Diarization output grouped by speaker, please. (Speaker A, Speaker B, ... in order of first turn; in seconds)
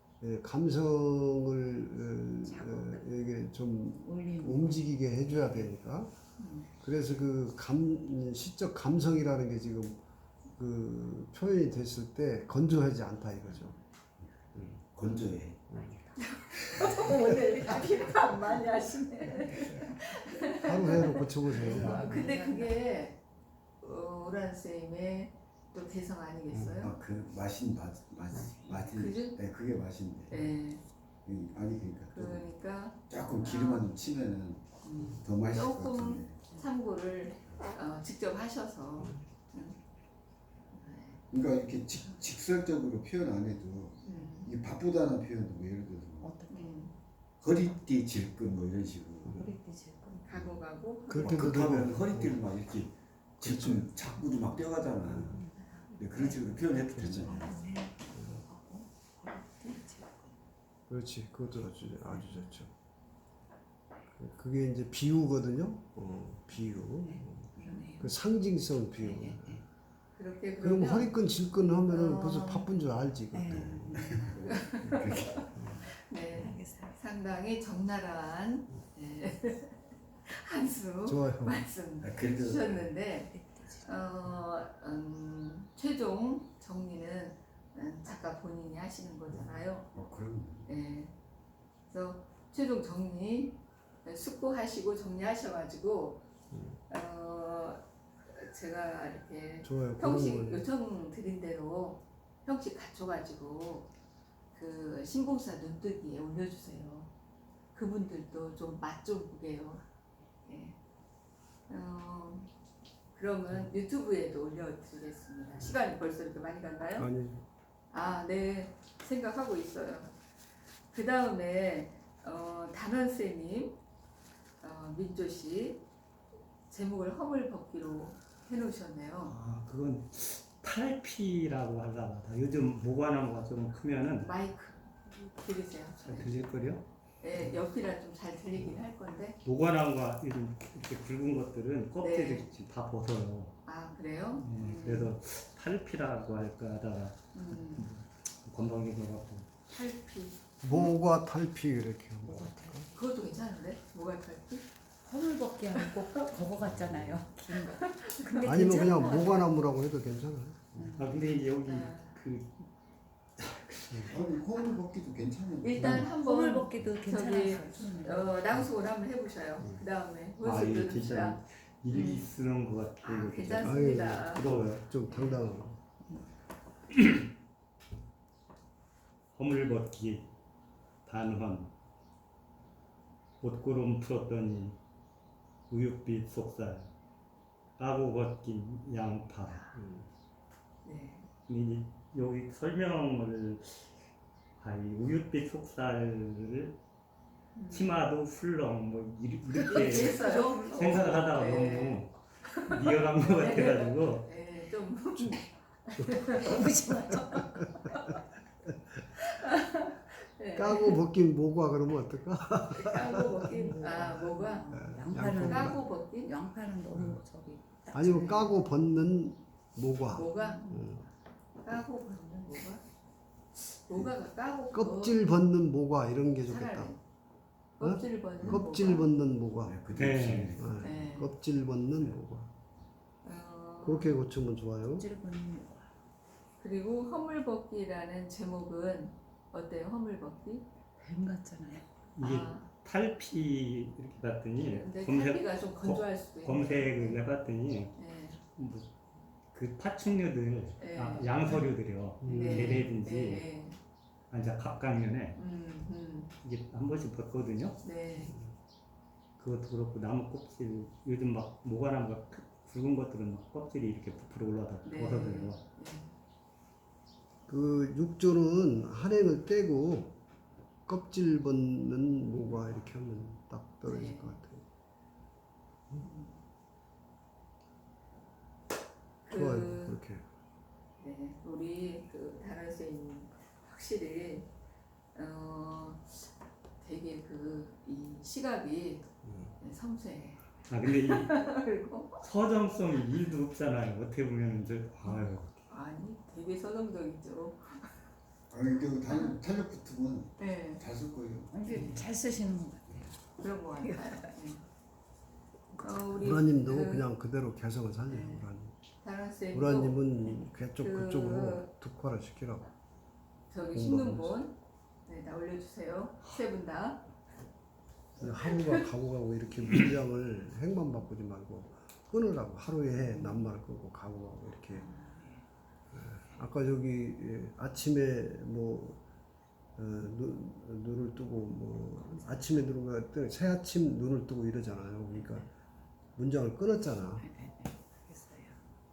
Speaker A: 0.2-6.1, 6.8-10.0, 10.6-13.8, 14.5-14.8, 15.7-16.1, 20.6-22.2, 26.5-26.9, 39.0-39.3, 49.3-49.5, 51.1-52.4, 53.4-54.2, 55.0-55.4, 56.9-57.4, 58.1-58.5, 60.9-62.7, 64.1-69.6, 70.6-74.1, 75.5-75.8, 81.0-81.7, 96.5-96.8, 99.6-100.7, 117.0-117.5, 150.6-152.9, 158.4-161.0, 169.6-169.9, 173.6-175.8, 189.7-190.1, 205.2-205.4, 205.9-206.6, 207.4-208.0, 210.5-213.4, 214.7-215.8, 216.9-217.2, 217.9-221.1, 224.7-227.0, 227.8-229.8, 230.6-232.5, 233.8-235.1, 252.2-252.9, 258.2-258.5, 267.5-270.2, 270.9-274.6, 279.3-280.3, 289.2-289.6, 306.2-308.8, 309.5-312.7, 313.7-314.4, 318.2-324.9, 325.9-329.0, 329.8-335.5, 336.2-337.3
Speaker B: 2.4-3.1, 4.0-5.7, 21.6-22.7, 46.2-46.9, 49.3-50.3, 55.2-60.3, 67.6-68.1, 69.1-69.6, 73.3-74.8, 76.3-77.0, 83.3-83.9, 152.2-152.9, 155.1-159.5, 160.8-161.2, 165.8-168.4, 199.7-200.4, 206.3-207.7, 213.4-218.4, 220.4-220.9, 234.9-235.9, 241.0-242.0, 301.5-303.2, 303.7-304.3, 337.4-338.5
Speaker C: 6.4-6.7, 16.2-23.2, 23.8-27.0, 28.7-29.4, 30.3-30.8, 32.1-33.9, 34.8-39.8, 40.7-41.2, 44.0-44.5, 46.5-46.9, 50.3-51.7, 67.1-67.9, 70.1-71.1, 71.9-72.7, 74.3-89.9, 90.7-91.1, 91.9-96.2, 96.9-103.9, 104.5-107.1, 107.7-109.8, 110.4-110.8, 111.7-112.5, 113.1-117.1, 117.9-120.1, 120.9-123.8, 124.6-125.8, 126.7-129.4, 134.2-136.3, 137.2-139.4, 142.0-142.5, 143.6-145.2, 147.3-147.9, 149.7-150.9, 152.9-154.7, 157.5-158.3, 161.6-162.2, 164.1-164.8, 165.6-171.4, 171.9-172.3, 173.0-174.4, 175.1-175.4, 189.4-189.7, 190.8-191.3, 197.6-198.0, 199.5-206.6, 207.3-208.2, 209.2-211.0, 212.8-214.8, 215.4-216.3, 218.1-218.5, 220.1-220.7, 221.6-222.8, 223.6-225.3, 226.5-227.0, 227.8-229.1, 230.8-231.3, 233.2-234.2, 236.6-240.7, 242.2-242.7, 244.6-247.2, 248.0-248.4, 250.8-251.7, 252.2-253.8, 255.4-256.3, 257.8-258.4, 264.9-266.1, 273.9-274.4, 276.0-276.4, 279.2-280.0, 281.0-284.5, 285.1-286.3, 286.8-289.1, 289.6-292.2, 295.1-298.0, 300.4-300.8, 301.7-302.0, 303.4-304.6, 305.8-307.1, 308.1-308.5, 309.0-311.7, 313.5-317.1, 318.2-318.8, 323.1-323.5, 324.7-325.2
Speaker D: 14.8-15.6, 16.5-17.2, 26.8-30.5, 31.2-32.5, 33.1-36.4, 41.3-46.3, 47.4-49.4, 50.3-50.6, 51.2-55.4, 56.0-57.5, 73.5-75.5, 82.0-83.0, 89.9-90.7, 156.7-157.2, 164.1-166.1, 228.4-228.7, 229.6-231.2, 298.5-301.8
Speaker E: 129.2-134.3, 136.0-137.6, 139.4-143.6, 144.4-149.5, 161.0-162.7, 163.4-164.2, 170.4-174.8, 176.9-177.3, 179.3-180.3, 181.1-181.7, 183.4-184.8, 185.7-186.9, 187.8-189.6, 191.5-194.0, 194.6-196.8, 197.7-204.3, 229.9-230.6, 242.1-248.0, 248.5-248.9, 249.5-253.5, 254.3-255.4, 256.4-257.8, 259.4-265.6, 290.7-291.5, 292.2-295.6